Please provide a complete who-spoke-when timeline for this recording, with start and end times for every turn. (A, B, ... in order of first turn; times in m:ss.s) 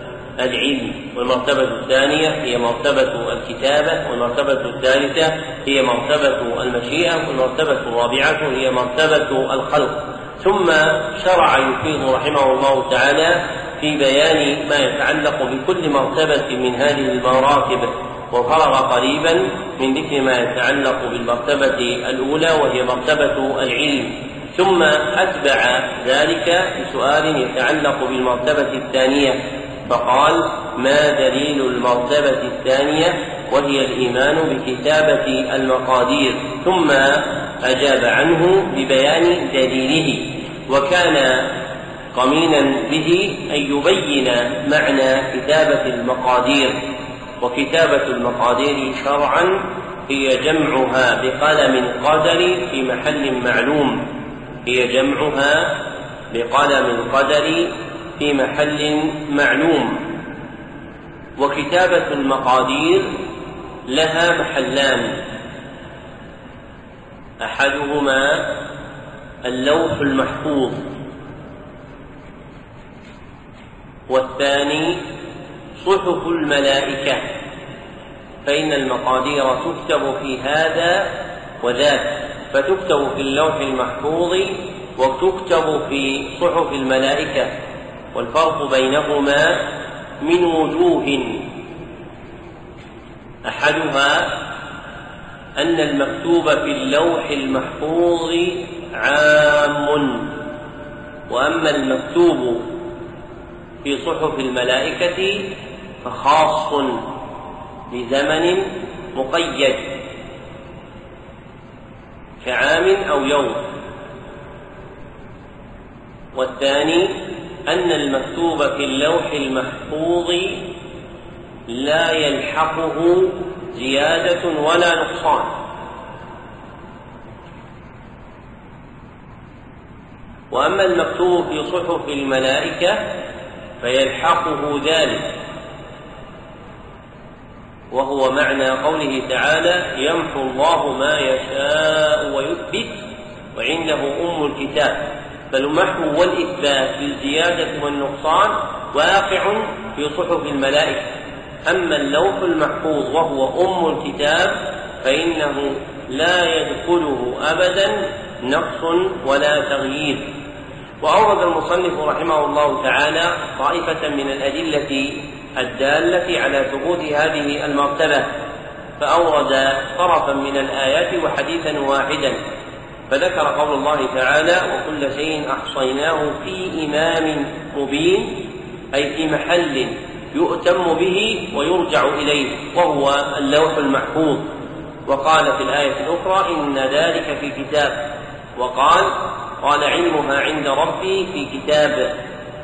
0:00.4-0:41.6 A
0:42.1-0:46.8 A
0:47.4-0:54.1 A
0:54.6-0:55.8 A
0:56.3-1:00.0 A
1:01.4-1:03.2 A
1:03.9-1:05.2 A
1:07.4-1:08.5 A
1:09.4-1:10.9 A
1:14.1-1:15.0 A
1:15.8-1:17.3 A
1:18.4-1:27.5 A
1:28.1-1:29.7 A
1:30.2-1:31.4 A
1:33.5-1:34.4 A
1:35.6-1:40.3 A
1:41.3-1:42.7 A
1:43.8-1:45.5 A
1:46.0-1:47.0 A
1:47.9-1:49.9 A
1:52.4-1:53.6 A
1:56.3-2:00.6 A
2:01.7-2:05.5 A
2:10.5-2:13.1 A
2:13.8-2:15.3 A
2:17.9-2:23.0 A
2:23.5-2:31.1 A
2:31.6-2:40.3 A
2:41.0-2:48.3 A
2:49.0-2:52.4 A
2:53.1-3:04.5 A
3:05.1-3:08.0 A
3:08.6-3:12.1 A